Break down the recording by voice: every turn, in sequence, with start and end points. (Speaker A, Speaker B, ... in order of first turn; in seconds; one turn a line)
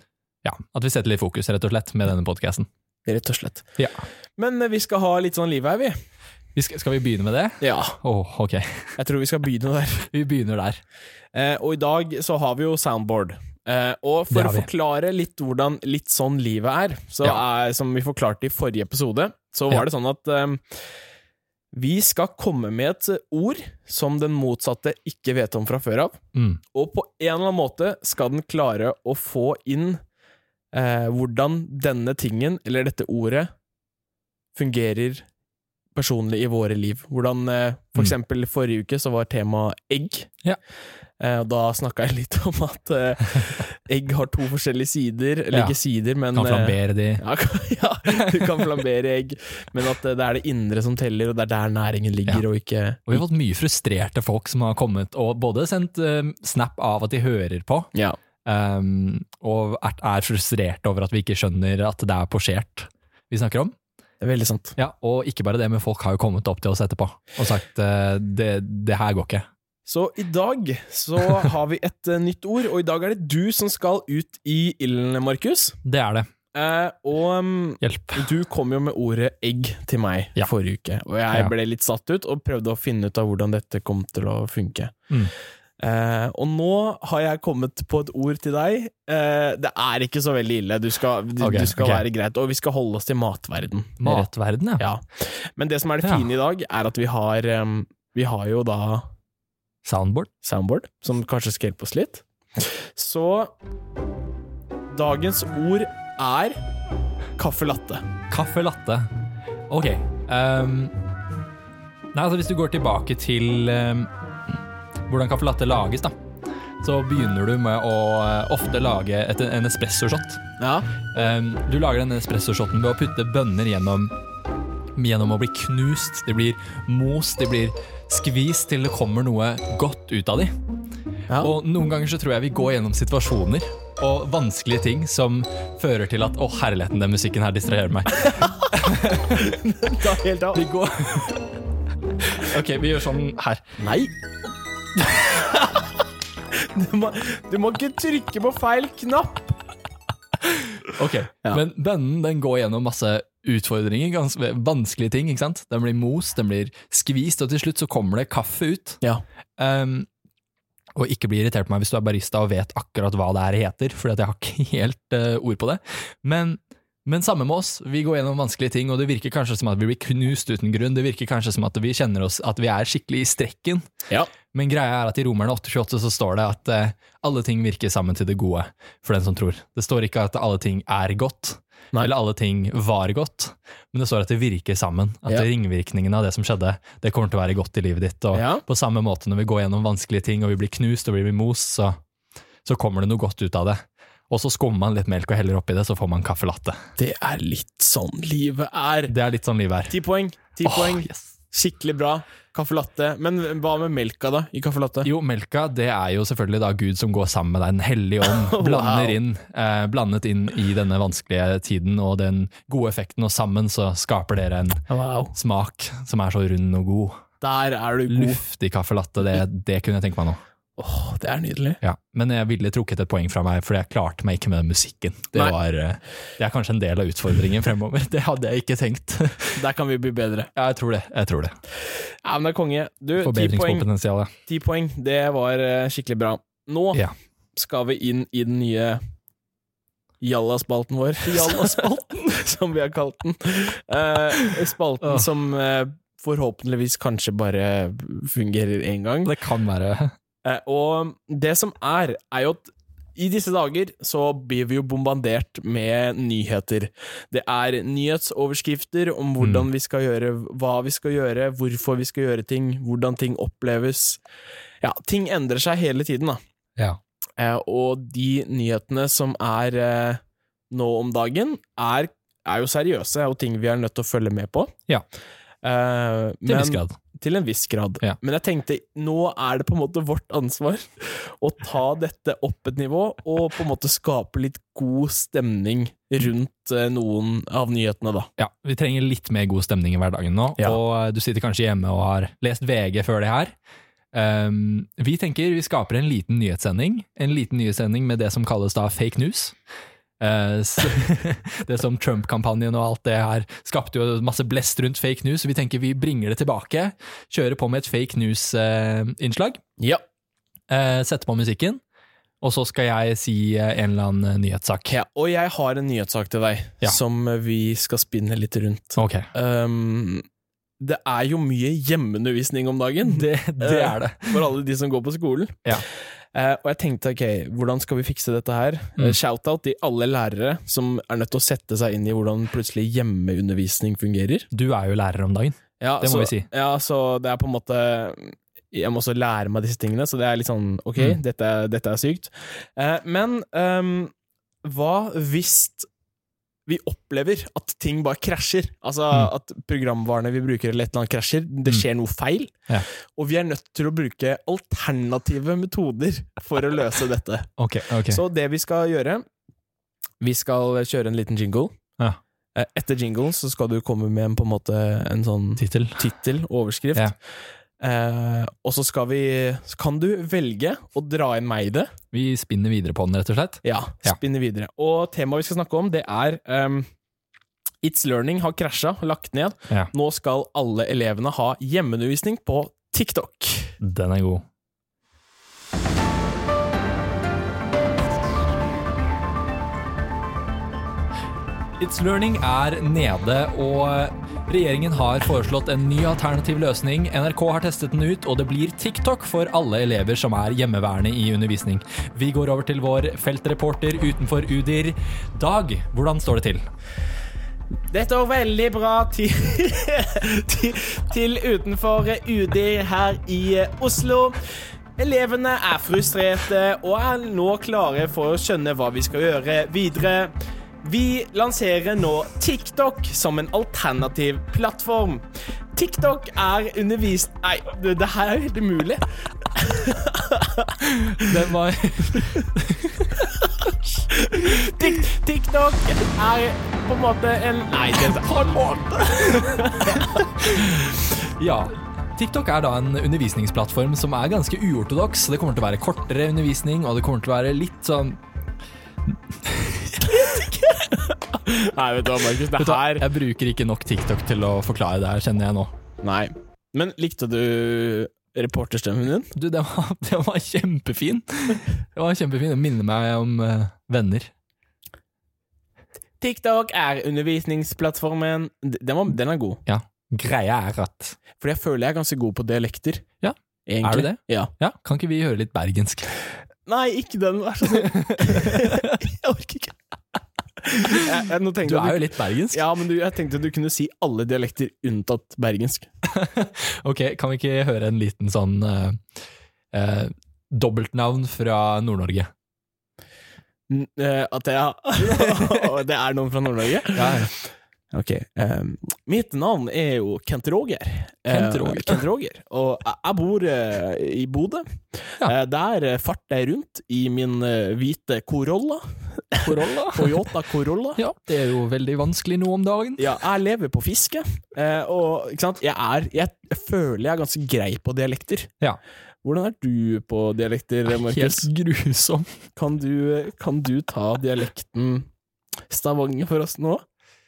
Speaker A: 0.4-2.7
Speaker B: 3.1-3.7
Speaker B: 4.4-6.0
Speaker A: 6.5-8.9
Speaker B: 7.6-8.0
Speaker B: 9.0-10.1
Speaker A: 10.1-10.8
Speaker B: 11.3-20.9
Speaker A: 14.3-14.7
Speaker B: 21.7-26.2
Speaker A: 26.3-26.6
Speaker B: 26.7-30.0
Speaker B: 30.7-33.5
Speaker B: 34.5-35.3
Speaker B: 36.0-40.3
Speaker B: 41.2-53.2
Speaker A: 46.3-47.2
Speaker A: 48.1-48.7
Speaker A: 53.1-57.9
Speaker A: 58.5-63.8
Speaker B: 64.2-64.8
Speaker A: 64.8-69.5
Speaker B: 69.9-75.8
Speaker A: 75.8-76.3
Speaker B: 76.5-85.0
Speaker A: 77.8-78.3
Speaker B: 85.8-99.1
Speaker A: 91.4-92.0
Speaker A: 94.0-94.8
Speaker A: 99.8-100.3
Speaker B: 100.4-103.5
Speaker B: 104.9-106.6
Speaker B: 107.4-108.0
Speaker A: 108.3-109.1
Speaker A: 109.7-110.9
Speaker A: 112.1-114.1
Speaker A: 115.1-116.2
Speaker A: 116.8-120.4
Speaker B: 120.6-120.9
Speaker A: 121.1-124.1
Speaker A: 125.0-130.5
Speaker A: 131.4-141.4
Speaker B: 138.2-138.6
Speaker B: 139.4-140.7
Speaker A: 142.2-143.6
Speaker B: 143.8-144.1
Speaker B: 145.2-145.8
Speaker B: 146.5-149.6
Speaker A: 150.9-159.0
Speaker A: 159.6-160.1
Speaker A: 160.9-173.8
Speaker A: 174.5-192.0
Speaker B: 188.3-188.6
Speaker A: 192.7-196.8
Speaker B: 197.0-199.1
Speaker A: 199.1-199.9
Speaker B: 199.9-205.1
Speaker A: 200.6-201.3
Speaker A: 205.1-217.2
Speaker B: 208.2-209.2
Speaker B: 214.9-215.3
Speaker B: 217.4-218.4
Speaker A: 218.1-220.4
Speaker B: 220.8-221.8
Speaker A: 221.8-229.6
Speaker B: 229.6-230.5
Speaker A: 230.6-231.5
Speaker B: 231.8-233.9
Speaker A: 233.2-234.3
Speaker B: 234.5-237.0
Speaker B: 237.6-239.0
Speaker B: 240.2-249.3
Speaker A: 241.2-242.1
Speaker A: 249.2-250.1
Speaker B: 250.4-264.2
Speaker A: 259.4-259.7
Speaker B: 264.8-266.4
Speaker B: 267.4-274.8
Speaker B: 275.6-288.3
Speaker A: 276.5-277.0
Speaker A: 288.4-293.6
Speaker A: 294.1-299.6
Speaker A: 300.2-309.6
Speaker A: 310.7-311.8
Speaker A: 312.4-314.9
Speaker B: 314.9-320.2
Speaker A: 319.0-319.3
Speaker B: 320.8-334.5
Speaker A: 323.1-324.4
Speaker A: 334.5-336.5
Speaker B: 335.8-344.1
Speaker B: 344.6-345.9
Speaker B: 346.7-357.5
Speaker A: 357.6-358.2
Speaker B: 358.1-359.2
Speaker B: 360.2-361.7
Speaker B: 362.6-367.2
Speaker A: 365.6-366.0
Speaker B: 367.8-371.9
Speaker A: 372.1-374.2
Speaker B: 373.6-376.9
Speaker B: 377.8-383.8
Speaker A: 383.8-384.4
Speaker A: 391.8-406.6
Speaker B: 407.9-431.4
Speaker A: 431.1-433.0
Speaker B: 433.0-440.7
Speaker A: 438.6-448.2
Speaker A: 449.1-450.6
Speaker B: 450.1-453.1
Speaker A: 452.6-455.7
Speaker B: 456.0-459.3
Speaker A: 459.4-464.3
Speaker B: 466.2-469.6
Speaker A: 469.7-471.2
Speaker B: 471.4-473.1
Speaker A: 473.2-476.1
Speaker B: 473.7-474.5
Speaker B: 476.7-479.8
Speaker A: 477.7-479.0
Speaker B: 480.6-485.9
Speaker A: 481.6-482.6
Speaker A: 486.1-489.0
Speaker A: 489.7-492.3
Speaker B: 493.7-511.0
Speaker A: 495.2-495.6
Speaker A: 496.9-497.3
Speaker A: 501.3-502.0
Speaker A: 509.4-510.3
Speaker A: 511.0-513.1
Speaker B: 513.0-518.5
Speaker B: 519.2-521.5
Speaker A: 520.9-522.4
Speaker B: 522.6-525.1
Speaker B: 525.7-526.8